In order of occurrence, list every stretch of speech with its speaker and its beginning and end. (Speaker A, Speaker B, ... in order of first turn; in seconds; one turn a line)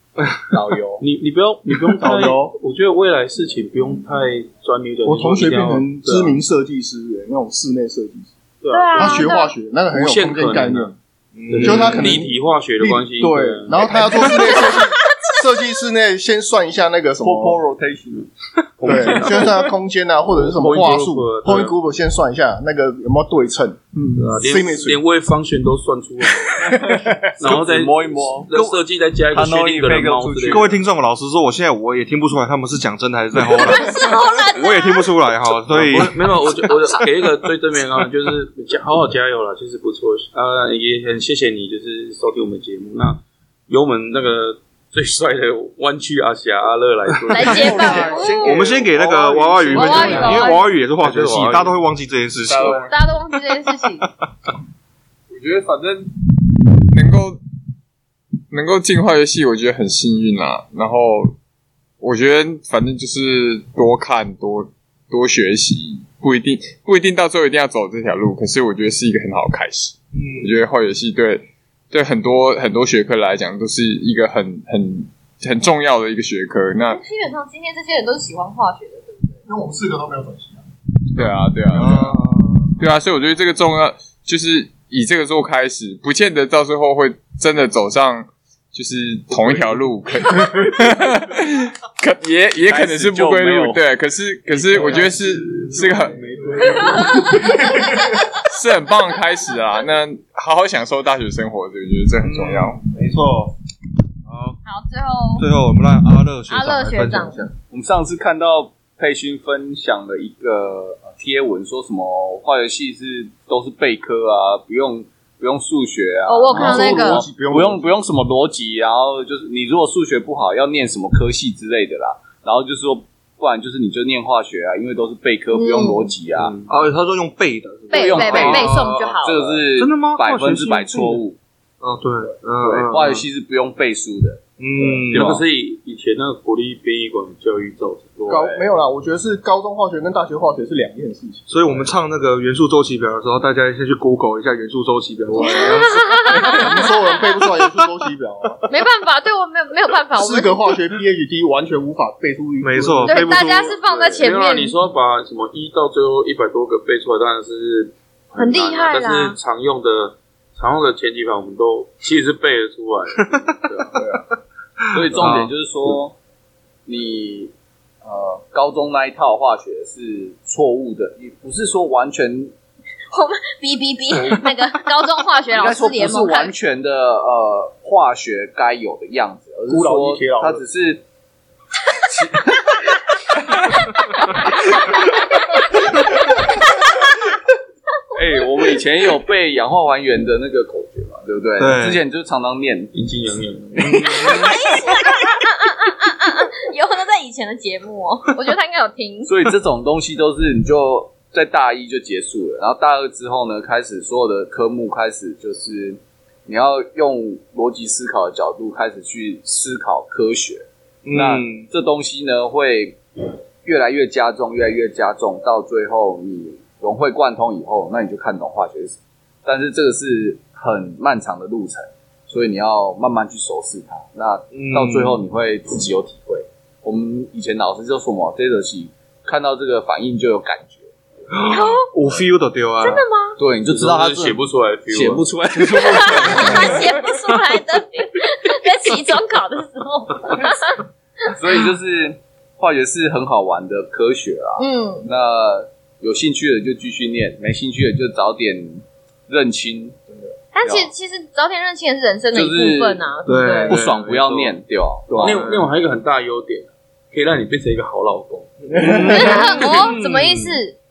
Speaker A: 0.5-1.0
Speaker B: 1.0-6.4
Speaker C: 1.9-2.5
Speaker C: 5.0-8.3
Speaker B: 8.6-9.3
Speaker D: 8.7-9.5
Speaker C: 8.9-10.9
Speaker B: 9.9-10.9
Speaker E: 11.3-12.2
Speaker B: 11.5-14.6
Speaker C: 11.6-17.6
Speaker D: 14.6-15.3
Speaker A: 17.2-18.3
Speaker B: 18.8-19.7
Speaker C: 18.8-25.0
Speaker B: 20.3-21.8
Speaker B: 24.2-30.8
Speaker C: 26.5-27.6
Speaker A: 26.8-28.5
Speaker A: 29.3-30.7
Speaker E: 30.5-36.6
Speaker D: 33.5-35.1
Speaker B: 35.7-48.1
Speaker D: 47.3-48.6
Speaker A: 47.6-50.5
Speaker E: 48.4-52.9
Speaker B: 49.6-51.7
Speaker D: 49.7-50.6
Speaker A: 51.2-51.5
Speaker F: 52.4-53.0
Speaker D: 52.9-54.1
Speaker F: 55.3-56.1
Speaker F: 56.8-57.4
Speaker F: 58.5-61.4
Speaker F: 62.0-77.0
Speaker E: 70.1-70.5
Speaker D: 76.8-79.4
Speaker C: 79.5-80.7
Speaker F: 81.2-82.2
Speaker E: 81.7-82.8
Speaker F: 82.8-102.8
Speaker A: 92.7-93.8
Speaker A: 94.5-95.3
Speaker C: 94.8-95.1
Speaker C: 95.6-97.0
Speaker D: 96.8-98.2
Speaker E: 102.2-103.5
Speaker E: 104.3-104.6
Speaker D: 104.7-105.5
Speaker E: 105.4-107.5
Speaker D: 106.5-107.5
Speaker A: 107.7-126.6
Speaker D: 116.3-117.2
Speaker C: 116.5-117.9
Speaker D: 125.5-126.1
Speaker B: 126.4-126.7
Speaker E: 126.7-129.2
Speaker D: 127.9-129.6
Speaker A: 127.9-131.4
Speaker E: 129.8-131.2
Speaker E: 131.8-133.2
Speaker A: 132.6-135.4
Speaker E: 134.6-135.4
Speaker B: 135.1-138.5
Speaker C: 138.3-141.9
Speaker A: 138.3-138.7
Speaker E: 141.5-146.9
Speaker D: 145.3-146.7
Speaker C: 146.4-148.7
Speaker D: 148.7-150.7
Speaker C: 150.2-153.4
Speaker E: 152.6-154.2
Speaker D: 153.1-154.7
Speaker B: 154.2-164.0
Speaker D: 158.3-159.4
Speaker A: 164.9-166.2
Speaker E: 164.9-166.0
Speaker A: 166.9-167.5
Speaker A: 168.0-172.5
Speaker D: 173.1-176.5
Speaker A: 175.5-181.0
Speaker C: 179.7-180.7
Speaker A: 182.1-182.7
Speaker A: 188.2-192.9
Speaker E: 191.6-192.0
Speaker B: 192.9-194.4
Speaker E: 193.8-194.5
Speaker D: 194.1-199.3
Speaker A: 199.3-213.0
Speaker E: 211.1-211.7
Speaker A: 213.6-230.9
Speaker E: 224.5-225.2
Speaker E: 231.3-233.0
Speaker D: 231.5-231.9
Speaker D: 232.8-233.4
Speaker A: 233.4-236.9
Speaker B: 233.7-235.2
Speaker D: 235.6-240.8
Speaker A: 241.3-250.9
Speaker D: 244.6-245.1
Speaker D: 250.5-253.8
Speaker A: 252.3-253.0
Speaker E: 253.2-254.5
Speaker A: 253.7-255.5
Speaker C: 255.1-255.5
Speaker B: 255.2-258.6
Speaker E: 258.6-260.6
Speaker C: 258.7-259.4
Speaker D: 258.9-260.8